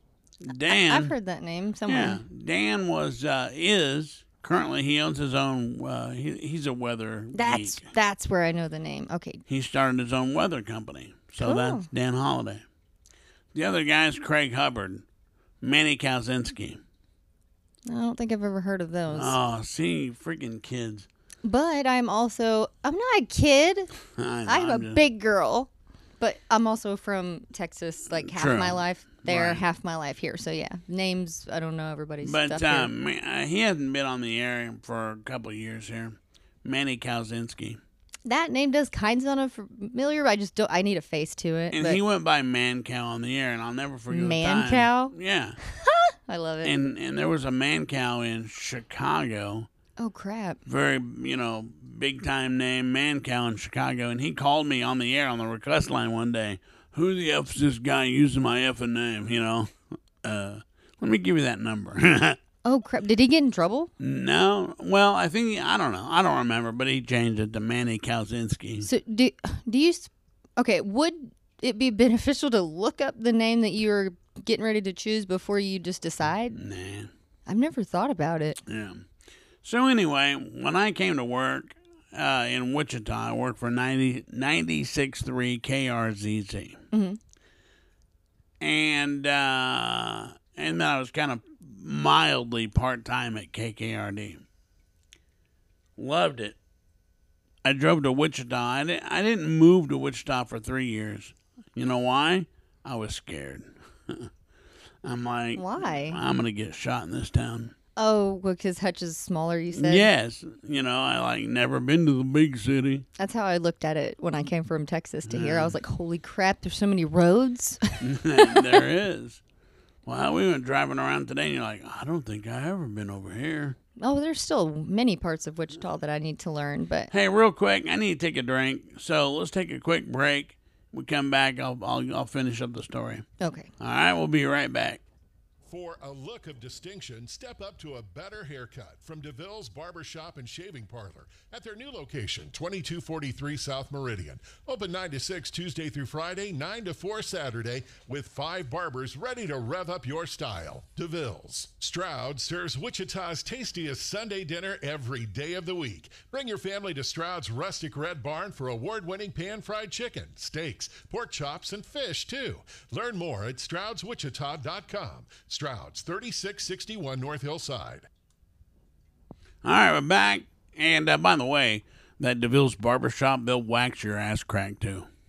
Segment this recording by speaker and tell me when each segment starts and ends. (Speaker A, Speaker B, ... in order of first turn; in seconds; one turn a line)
Speaker A: 0.5-1.1
Speaker B: 0.7-2.2
Speaker A: 1.9-7.9
Speaker B: 7.3-9.4
Speaker A: 9.5-12.6
Speaker B: 11.4-11.9
Speaker A: 13.5-15.0
Speaker A: 15.6-16.8
Speaker B: 17.9-19.4
Speaker A: 19.1-21.1
Speaker B: 21.4-23.9
Speaker A: 24.1-25.0
Speaker B: 24.5-32.9
Speaker A: 28.2-29.6
Speaker A: 32.2-37.8
Speaker B: 38.3-42.0
Speaker A: 41.7-45.6
Speaker B: 44.1-45.1
Speaker B: 45.7-46.8
Speaker A: 46.6-49.7
Speaker B: 50.0-50.6
Speaker A: 50.7-62.4
Speaker B: 62.6-63.9
Speaker A: 64.0-68.9
Speaker B: 68.8-76.6
Speaker A: 76.5-77.1
Speaker B: 77.5-78.6
Speaker A: 78.7-79.1
Speaker A: 79.6-86.8
Speaker B: 86.9-87.2
Speaker A: 88.6-94.4
Speaker A: 96.0-96.6
Speaker A: 97.6-104.3
Speaker A: 105.0-107.7
Speaker B: 105.6-106.2
Speaker B: 108.0-110.1
Speaker A: 109.7-113.1
Speaker B: 113.2-118.7
Speaker A: 115.3-115.8
Speaker A: 118.0-119.4
Speaker A: 120.1-123.8
Speaker B: 124.0-127.1
Speaker A: 127.1-133.2
Speaker B: 133.4-133.7
Speaker A: 133.8-135.0
Speaker C: 135.7-168.1
Speaker A: 169.6-175.1